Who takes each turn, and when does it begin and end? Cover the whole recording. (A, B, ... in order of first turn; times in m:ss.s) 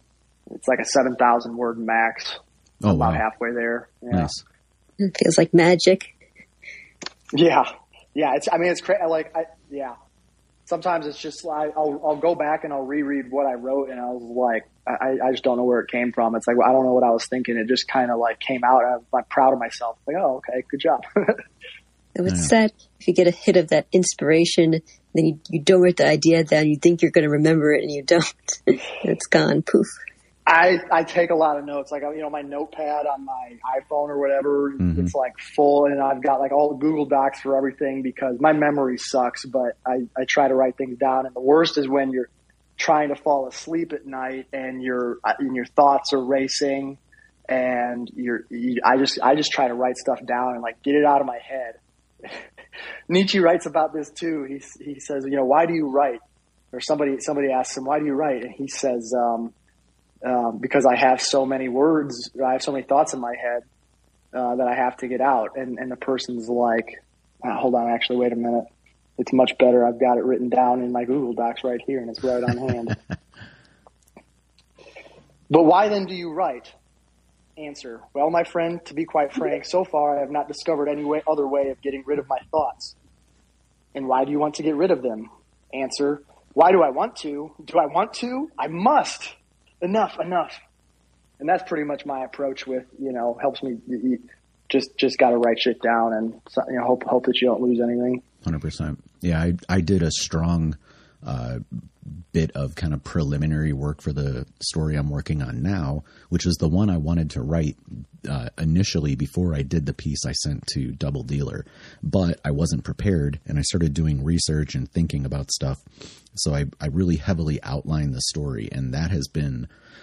0:00.5-0:04.3 A
0:02.8-0:03.2 B
0:04.1-0:04.4 B
0:05.0-0:06.1 C
0:07.3-0:09.9 A
0:10.7-0:21.4 A
0:22.2-0:30.0 C
0:22.2-0:22.5 B
0:30.4-0:47.0 A
0:34.8-0:35.1 B
0:47.5-0:52.3 A
0:53.1-0:56.2 A
0:56.7-0:59.5 A
1:00.2-1:03.6 A
1:04.3-1:08.7 A
1:09.2-1:13.0 A
1:15.5-1:16.7 A
1:17.6-1:22.9 A
1:23.9-1:30.6 A
1:31.4-1:38.2 A
1:38.4-1:55.8 B
1:56.3-1:59.7 B